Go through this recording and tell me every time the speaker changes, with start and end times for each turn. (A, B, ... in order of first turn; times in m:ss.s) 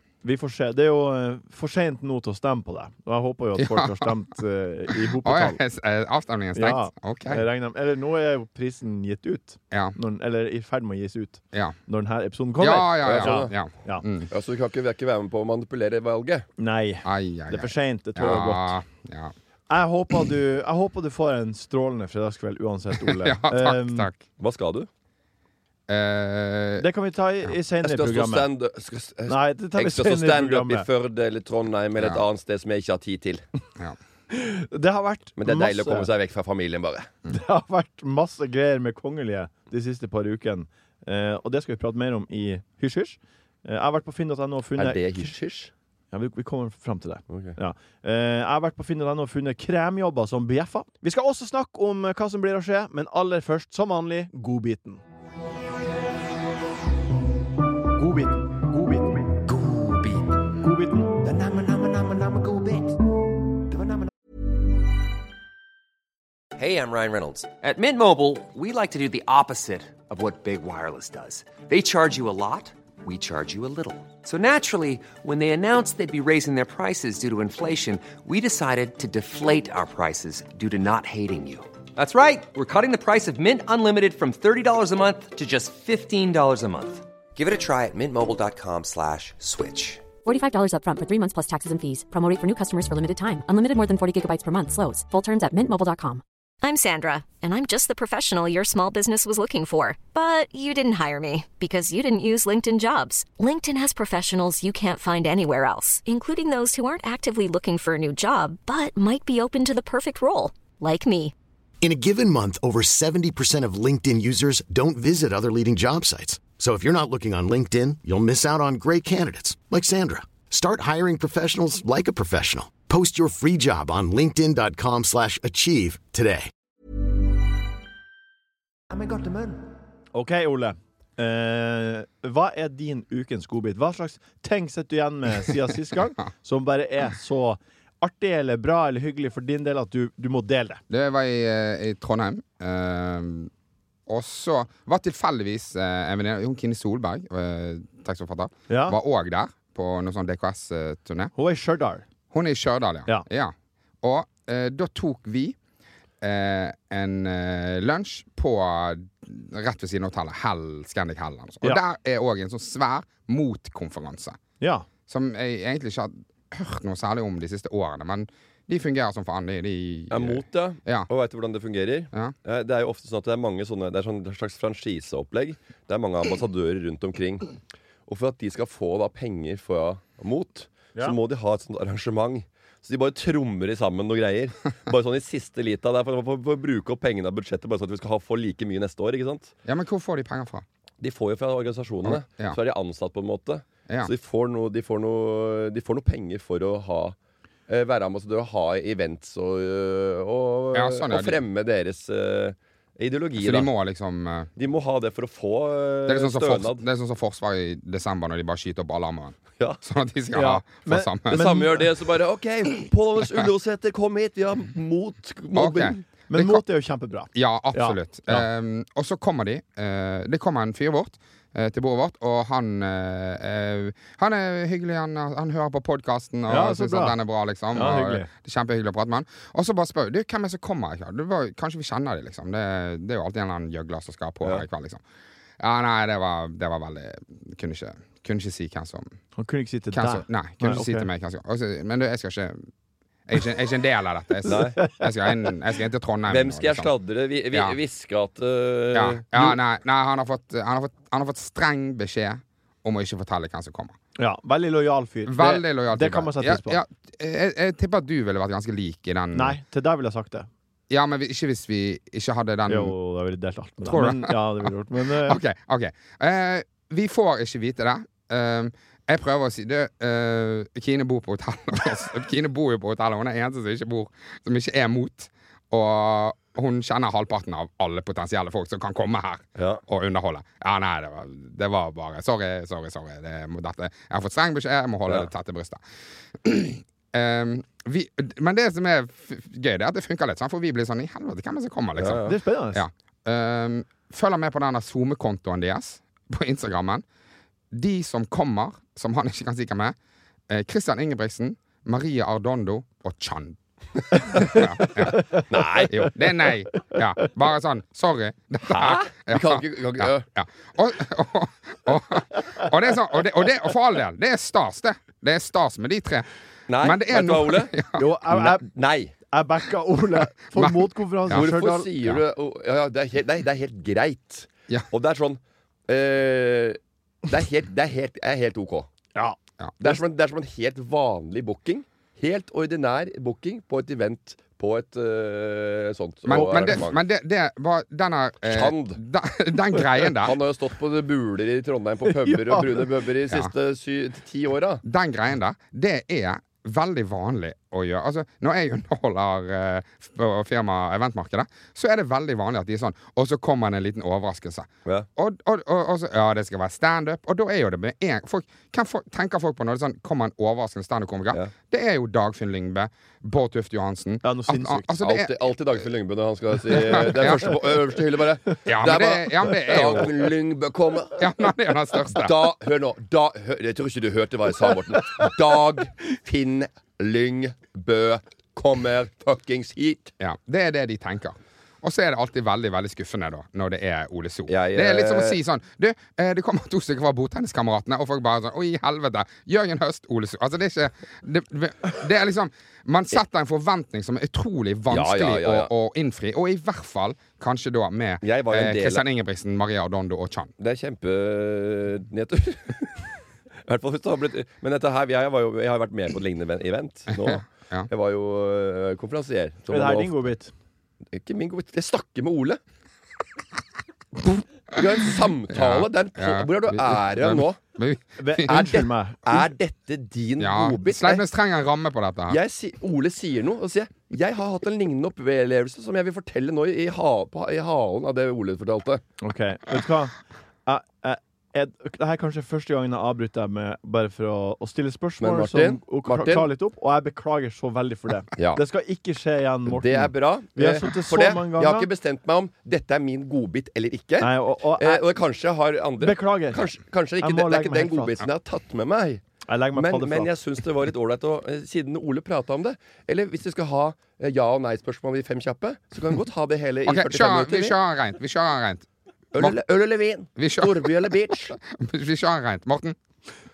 0:00.2-0:05.6 A
0:03.6-0:04.1 B
0:05.2-0:07.5 B
0:06.5-0:14.0 A
0:09.7-0:10.0 B
0:12.6-0:14.3 B
0:13.0-0:13.5 C
0:14.3-0:16.5 C
0:16.6-0:18.8 A
0:17.0-0:19.3 B
0:19.7-0:24.1 A
0:23.1-0:24.2 B
0:24.4-0:24.9 C
0:25.9-0:26.9 B
0:26.8-0:28.5 A
0:27.8-0:33.4 C
0:29.3-0:30.9 A
0:32.0-0:32.2 B
0:34.3-0:36.1 A
0:35.4-0:37.1 C
0:37.3-0:45.3 A
0:44.8-0:45.7 C
0:46.1-0:55.0 A
0:47.3-0:47.6 C
0:58.0-0:59.2 A
0:59.4-1:00.5 D
1:00.6-1:01.2 A
1:01.1-1:03.0 D
1:03.6-1:04.1 D
1:06.6-1:30.0 D
1:30.2-1:36.2 E
1:36.6-1:51.3 F
1:51.8-2:06.5 G
2:08.9-2:09.7 D
2:10.1-2:20.8 A
2:20.9-2:23.5 B
2:24.1-2:31.3 B
2:28.7-2:29.0 A
2:31.4-2:32.0 A
2:32.3-2:35.6 B
2:36.2-2:44.4 B
2:44.6-2:44.9 A
2:45.1-2:51.1 B
2:50.1-2:57.5 C
2:58.1-3:09.5 C
3:09.6-3:10.6 B
3:11.0-3:17.2 C
3:12.0-3:12.6 B
3:17.7-3:23.7 C
3:20.7-3:21.4 B
3:23.4-3:24.5 B
3:24.6-3:26.8 C
3:26.1-3:31.5 B
3:30.3-3:31.8 A
3:31.3-3:36.0 C
3:35.5-3:36.6 B
3:36.3-3:38.5 A
3:37.3-3:55.0 B
3:46.5-3:47.2 A
3:47.7-3:48.3 A
3:55.6-3:59.1 B
3:59.4-4:01.1 A
3:59.9-4:02.7 B
4:03.3-4:06.9 B
4:04.5-4:04.8 C
4:06.3-4:09.6 C
4:07.5-4:07.8 B
4:08.9-4:14.0 B
4:14.2-4:16.8 A
4:15.2-4:19.6 B
4:19.3-4:20.5 A
4:20.9-4:22.9 B
4:22.7-4:25.4 A
4:23.8-4:45.8 B
4:39.6-4:39.8 C
4:46.4-4:57.0 B
4:52.0-4:52.4 C
4:52.2-4:52.8 A
4:57.7-5:00.0 B
5:00.5-5:03.6 B
5:04.1-5:05.3 B
5:04.3-5:05.9 A
5:05.5-5:06.0 C
5:05.9-5:16.3 B
5:08.7-5:10.2 C
5:16.7-5:17.7 C
5:16.8-5:18.1 B
5:18.0-5:18.7 A
5:18.4-5:19.1 C
5:19.3-5:21.9 A
5:20.5-5:21.5 B
5:21.3-5:28.9 C
5:29.1-5:30.0 A
5:29.8-5:37.0 C
5:36.2-5:40.4 B
5:38.4-5:39.0 C
5:40.2-5:44.8 C
5:42.2-5:42.8 A
5:44.8-6:05.4 B
6:04.2-6:05.0 A
6:05.0-6:11.2 C
6:06.7-6:07.6 B
6:08.6-6:10.3 B
6:11.2-6:12.4 B
6:12.1-6:20.1 C
6:20.2-6:40.5 B
6:24.5-6:25.4 C
6:34.9-6:35.7 C
6:38.2-6:39.0 C
6:40.6-6:43.1 C
6:43.7-6:50.3 C
6:47.1-6:47.9 B
6:49.7-6:50.5 A
6:51.1-6:52.6 C
6:54.7-6:57.6 C
6:55.5-6:58.5 B
6:58.2-6:59.4 A
6:58.5-7:01.2 C
7:00.4-7:02.4 B
7:02.3-7:09.0 C
7:09.2-7:21.9 A
7:15.2-7:16.5 C
7:19.7-7:29.2 C
7:24.2-7:25.0 A
7:26.0-7:26.6 A
7:27.2-7:28.2 A
7:29.5-7:30.3 A
7:29.8-7:37.8 C
7:36.9-7:38.9 B
7:39.3-7:41.6 C
7:40.4-7:43.0 B